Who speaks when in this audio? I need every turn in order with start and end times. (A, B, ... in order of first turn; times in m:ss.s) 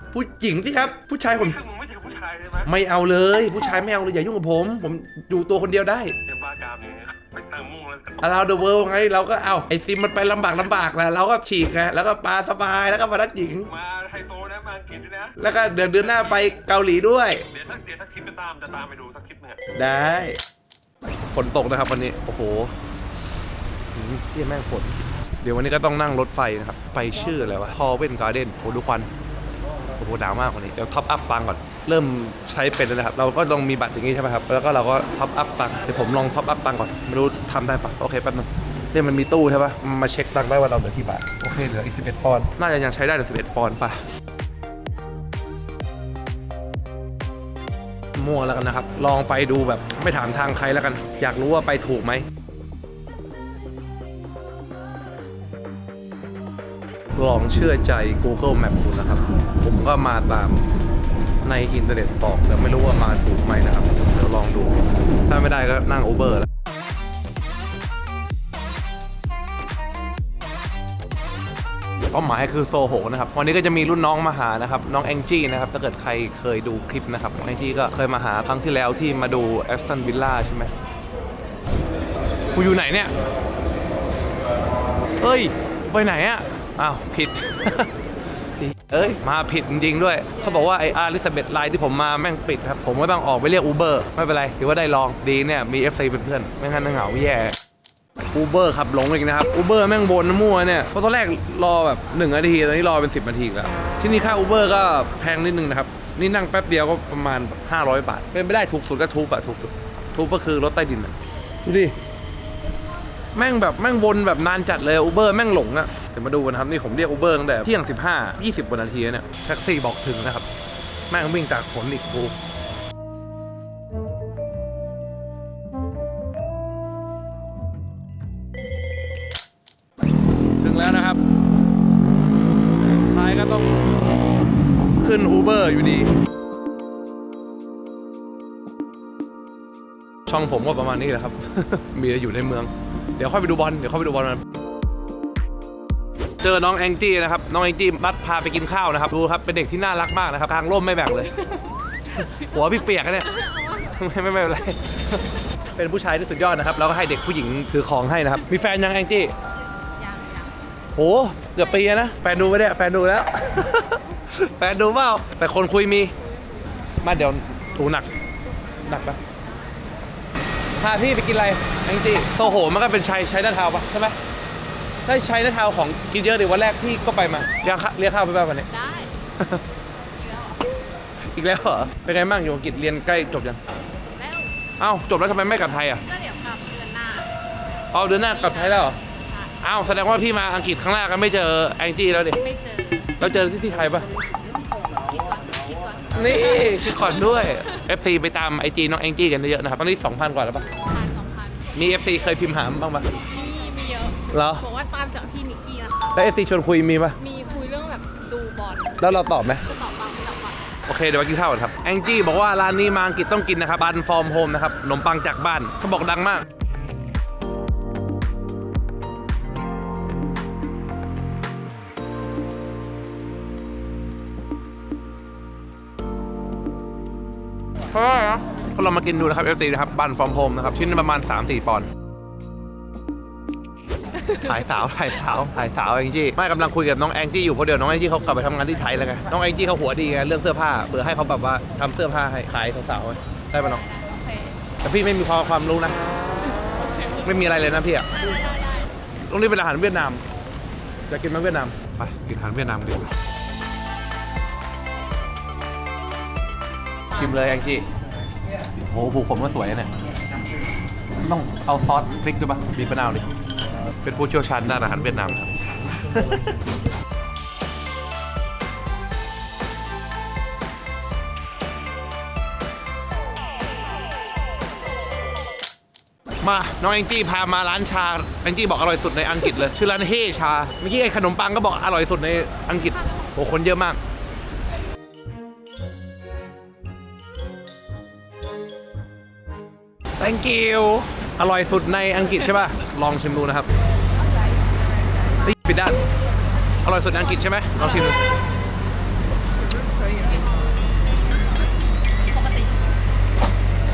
0:00.1-0:01.6 A
0:01.4-0:02.7 B
0:02.6-0:06.1 A
0:06.2-0:08.3 B
0:08.2-0:13.7 A
0:13.7-0:15.4 B
0:15.4-0:17.4 A
0:16.0-0:16.5 B
0:17.5-0:19.6 B
0:19.8-0:20.4 A
0:21.3-0:22.7 A
0:23.9-0:29.1 A
0:30.0-0:44.0 A
0:48.2-0:52.2 A
0:57.1-1:00.7 A
1:01.4-1:06.5 A
1:12.1-1:20.7 A
1:22.5-1:23.1 A
1:25.2-1:27.9 A
1:28.6-1:37.6 A
1:38.3-1:51.9 A
1:53.3-2:00.5 A
2:01.1-2:02.3 A
2:10.6-2:11.2 A
2:12.8-2:13.8 A
2:15.0-2:16.1 A
2:20.3-2:24.4 A
2:26.4-2:31.4 A
2:32.2-2:35.2 A
2:35.7-2:39.3 A
2:40.0-2:40.5 C
2:40.9-2:46.1 A
2:47.0-2:48.1 A
2:48.8-2:49.2 A
2:50.8-2:54.2 A
2:55.0-2:58.7 A
2:58.7-2:59.1 C
3:00.1-3:00.7 C
3:01.3-3:03.6 A
3:04.1-3:04.5 C
3:04.8-3:06.0 A
3:06.0-3:07.4 C
3:07.9-3:09.0 A
3:08.2-3:09.5 C
3:09.6-3:12.4 A
3:12.4-3:13.2 C
3:13.2-3:14.0 A
3:14.9-3:16.7 C
3:16.1-3:20.7 A
3:20.9-3:21.6 C
3:21.7-3:23.1 A
3:23.2-3:26.1 C
3:24.3-3:24.6 A
3:26.1-3:27.2 A
3:27.2-3:29.0 C
3:29.0-3:29.7 A
3:29.7-3:30.6 C
3:30.9-3:36.4 A
3:47.9-3:51.9 A
3:54.3-4:03.9 A
4:03.9-4:04.5 C
4:04.8-4:06.0 A
4:07.1-4:08.5 A
4:09.2-4:10.2 A
4:11.1-4:13.1 A
4:17.1-4:17.9 A
4:18.8-4:19.9 A
4:21.2-4:23.3 A
4:24.0-4:25.5 A
4:26.1-4:26.4 A
4:36.4-4:44.0 A
4:50.2-4:53.7 A
4:55.4-4:56.0 A
4:56.8-4:58.2 A
5:00.1-5:00.6 C
5:02.3-5:02.8 C